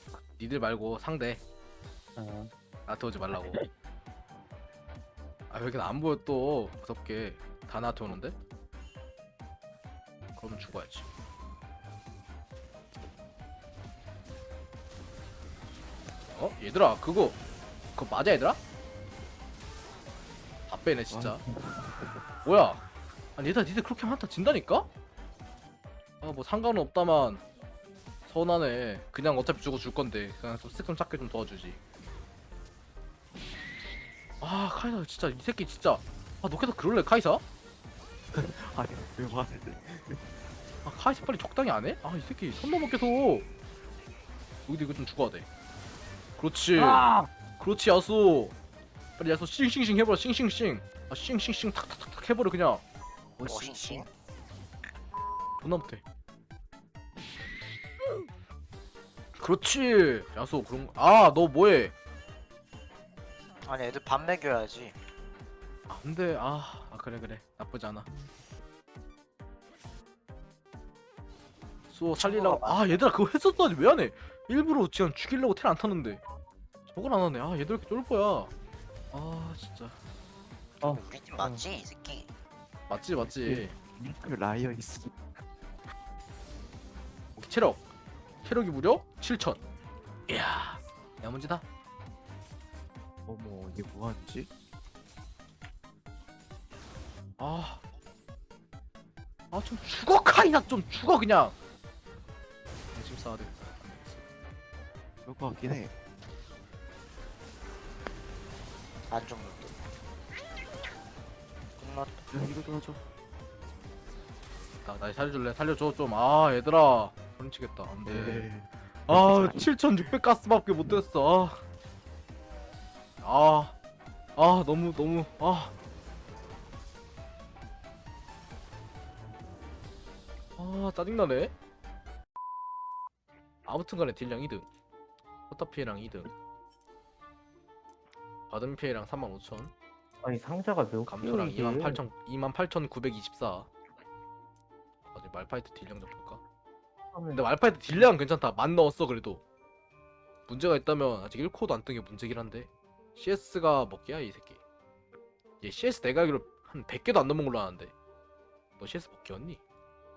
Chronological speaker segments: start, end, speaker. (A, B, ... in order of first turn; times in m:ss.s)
0:00.3-0:01.4 A
0:02.2-0:02.5 B
0:02.9-0:03.6 A
0:03.3-0:03.7 B
0:05.5-0:08.3 A
0:10.4-0:11.1 A
0:16.3-0:17.4 A
0:18.0-0:18.6 A
0:20.7-0:21.4 A
0:21.1-0:22.2 C
0:22.4-0:22.8 A
0:23.4-0:24.9 A
0:26.2-0:27.4 A
0:28.2-0:31.8 A
0:34.4-0:37.4 A
0:38.3-0:40.2 C
0:40.8-0:43.5 A
0:44.7-0:45.5 A
0:46.4-0:47.0 A
0:47.6-0:48.5 A
0:49.2-0:52.8 A
0:53.4-0:54.1 C
0:53.4-0:54.1 D
0:55.6-0:56.0 A
0:59.4-1:01.9 A
1:03.6-1:05.0 D
1:05.9-1:08.1 A
1:11.9-1:16.2 A
1:12.2-1:13.0 D
1:16.9-1:18.5 A
1:19.1-1:20.0 A
1:20.8-1:21.6 B
1:20.8-1:22.3 D
1:22.9-1:23.8 A
1:23.2-1:25.2 C
1:27.4-1:27.8 A
1:28.4-1:29.6 A
1:30.3-1:31.6 A
1:33.2-1:34.5 C
1:37.4-1:37.8 A
1:39.5-1:41.6 A
1:42.9-1:44.2 A
1:45.2-1:45.9 C
1:49.1-1:49.7 D
1:51.8-1:52.2 D
1:52.3-1:53.0 C
1:54.8-1:58.5 A
1:58.0-1:59.7 C
1:59.1-2:01.6 A
2:03.2-2:03.7 A
2:04.4-2:05.7 A
2:10.6-2:11.5 A
2:13.6-2:14.6 A
2:15.5-2:16.3 A
2:18.5-2:19.7 A
2:20.2-2:22.0 B
2:21.0-2:23.7 A
2:25.1-2:26.4 A
2:27.1-2:28.1 B
2:27.3-2:29.4 A
2:30.5-2:34.6 A
2:35.6-2:37.9 A
2:38.8-2:39.6 A